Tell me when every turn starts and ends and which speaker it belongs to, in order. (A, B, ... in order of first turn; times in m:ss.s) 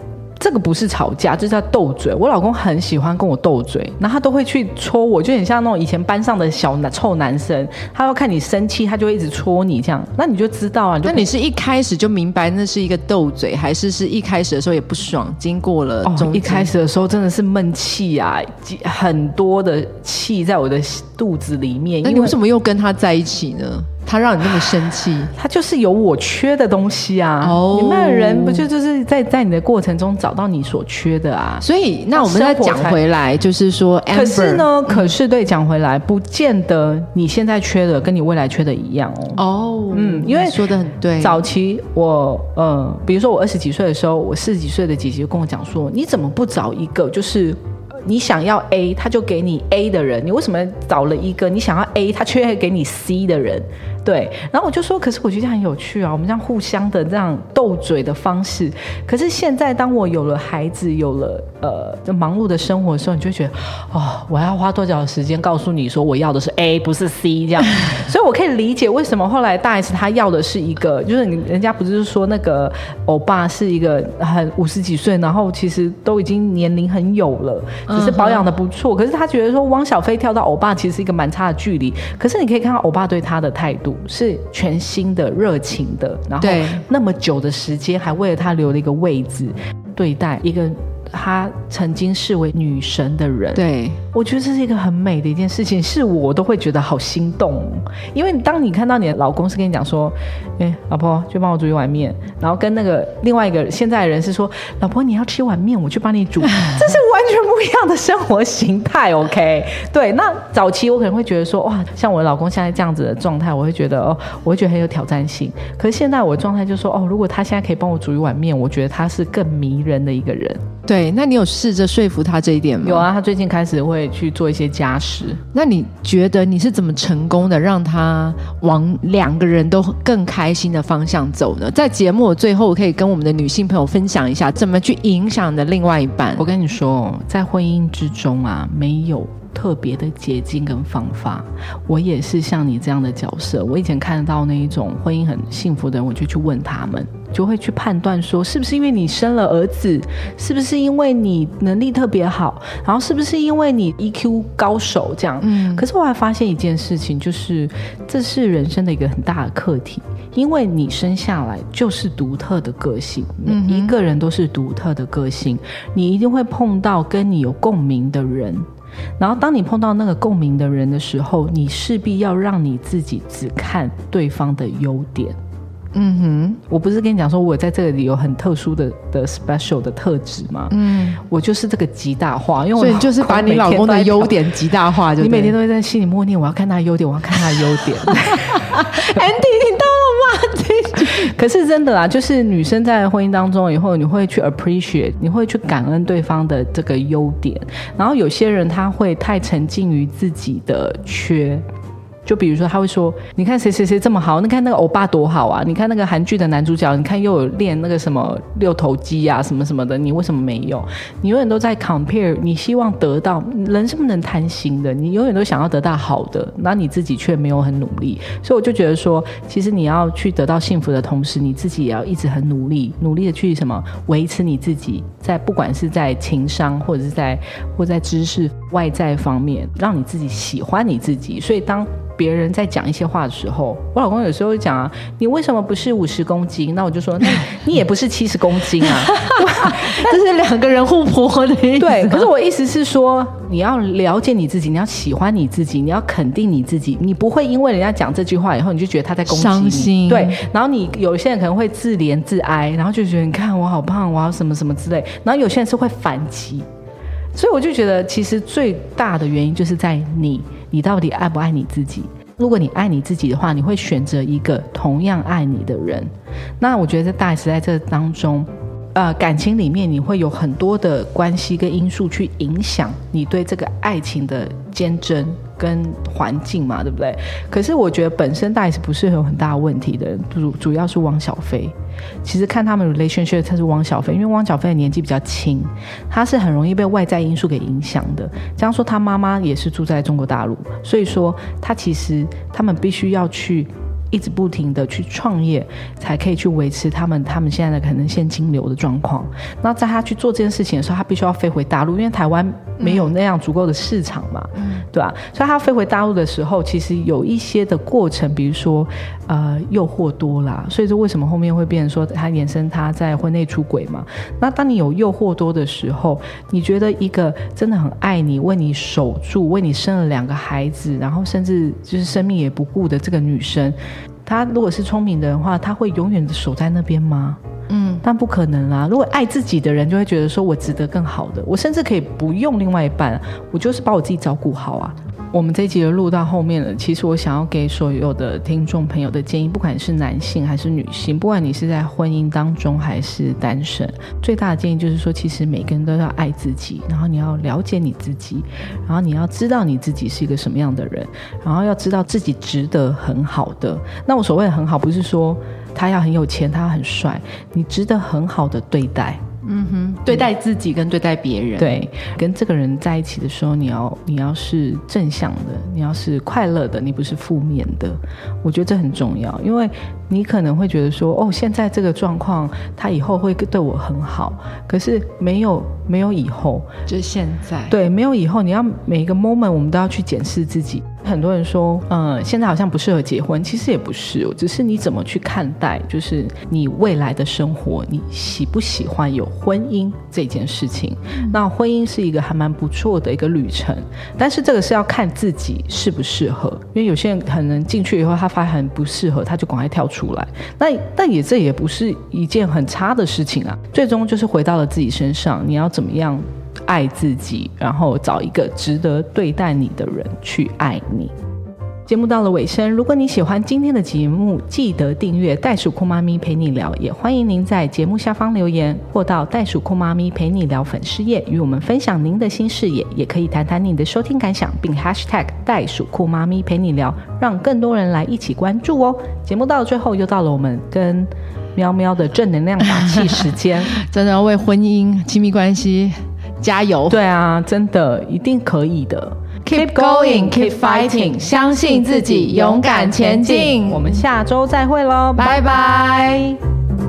0:00.4-0:11.3 A
0:11.0-0:16.7 B
0:16.0-0:22.4 A
0:22.0-0:25.3 B
0:25.3-0:33.0 A
0:27.4-0:28.7 B
0:31.6-0:35.1 B
0:34.1-0:39.4 A
0:39.4-0:41.4 B
0:39.9-0:40.6 A
0:41.2-1:33.6 A
1:17.9-1:18.5 B
1:26.4-1:26.8 B
1:33.6-1:34.0 B
1:34.1-2:00.6 A
2:00.9-2:03.1 B
2:02.8-2:05.4 A
2:05.5-2:16.5 B
2:16.4-2:48.7 A
2:35.4-2:35.8 B
2:43.5-2:44.0 B
2:49.2-2:55.4 A
2:55.9-2:56.6 B
2:56.7-3:04.4 A
3:00.7-3:01.2 B
3:02.8-3:05.6 B
3:05.2-3:09.0 A
3:08.0-3:11.3 B
3:11.0-3:21.6 A
3:22.3-4:00.2 A
3:58.8-4:02.3 B
4:01.8-4:16.6 A
4:09.3-4:10.4 B
4:17.4-4:26.1 A
4:26.6-5:27.4 A
5:02.8-5:03.1 B
5:04.6-5:04.8 B
5:27.7-5:28.0 B
5:28.0-5:59.2 A
5:59.4-6:01.8 B
6:01.6-6:16.7 A
6:16.9-6:17.8 B
6:17.7-6:51.1 A
6:51.9-7:13.8 A
7:13.7-7:17.0 B
7:16.9-7:25.4 A
7:19.4-7:24.0 B
7:25.2-7:26.4 B